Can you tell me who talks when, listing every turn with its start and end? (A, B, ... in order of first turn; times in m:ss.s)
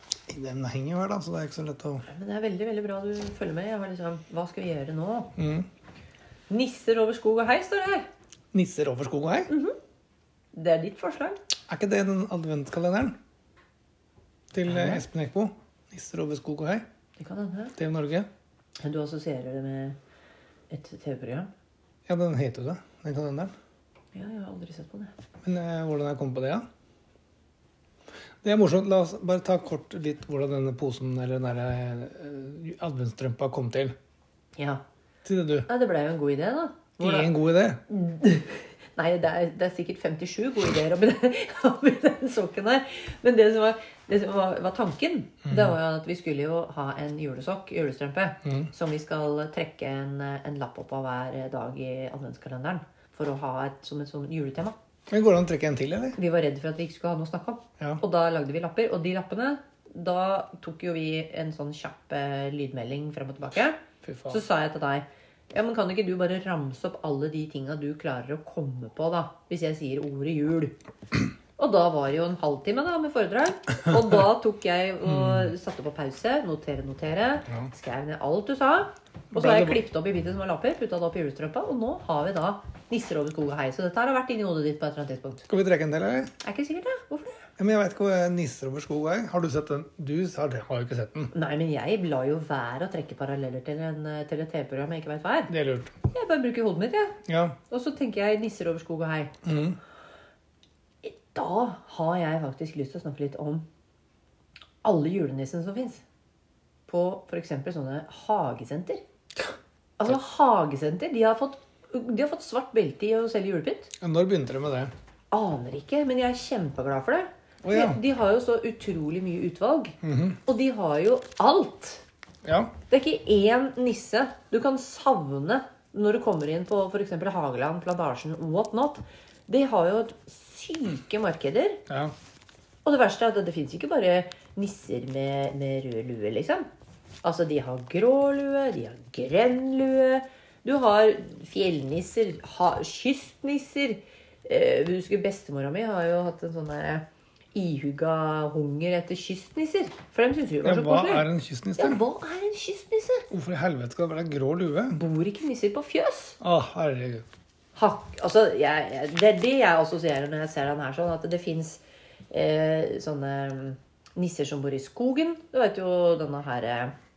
0:00.3-0:02.0 A
0:02.0-0:05.3 B
0:05.4-0:05.6 A
0:06.5-0:08.1 B
0:08.5-0:09.5 A
0:09.5-0:09.8 B
0:10.5-0:11.4 B
0:11.7-0:13.1 A
0:14.5-0:16.8 A
0:14.7-0:15.0 B
0:17.2-0:17.7 B
0:17.8-0:18.3 A
0:18.8-0:20.0 B
0:20.7-0:21.5 B
0:22.1-0:23.5 A
0:24.1-0:25.1 B
0:25.4-0:26.6 A
0:28.4-0:33.9 A
0:34.6-0:34.8 B
0:35.2-0:35.7 A
0:35.7-0:37.4 B
0:37.0-0:37.8 A
0:37.9-0:54.8 B
0:45.5-0:45.7 A
0:48.4-0:48.7 A
0:55.1-0:56.2 A
0:56.2-1:03.8 B
1:04.0-1:04.4 A
1:04.3-1:10.8 B
1:11.6-1:25.5 B
1:15.0-1:15.5 A
1:19.3-1:19.8 A
1:25.5-1:26.3 A
1:26.4-1:27.5 B
1:27.6-1:31.3 A
1:31.3-1:35.5 B
1:35.5-1:35.9 A
1:36.1-1:37.2 B
1:37.3-1:37.6 A
1:37.7-1:39.3 B
1:39.4-1:39.8 A
1:41.0-1:43.6 B
1:44.8-1:46.0 B
1:46.9-1:49.0 B
1:50.0-1:53.9 B
1:54.0-1:54.9 A
1:55.3-2:02.0 B
1:57.6-1:58.0 A
2:00.0-2:00.4 A
2:02.4-2:02.7 A
2:02.9-2:11.8 B
2:12.8-2:16.7 B
2:17.2-2:31.3 B
2:30.6-2:32.0 A
2:31.8-2:33.2 B
2:33.3-2:35.0 A
2:34.9-2:36.4 B
2:36.4-2:37.2 A
2:37.7-2:46.9 B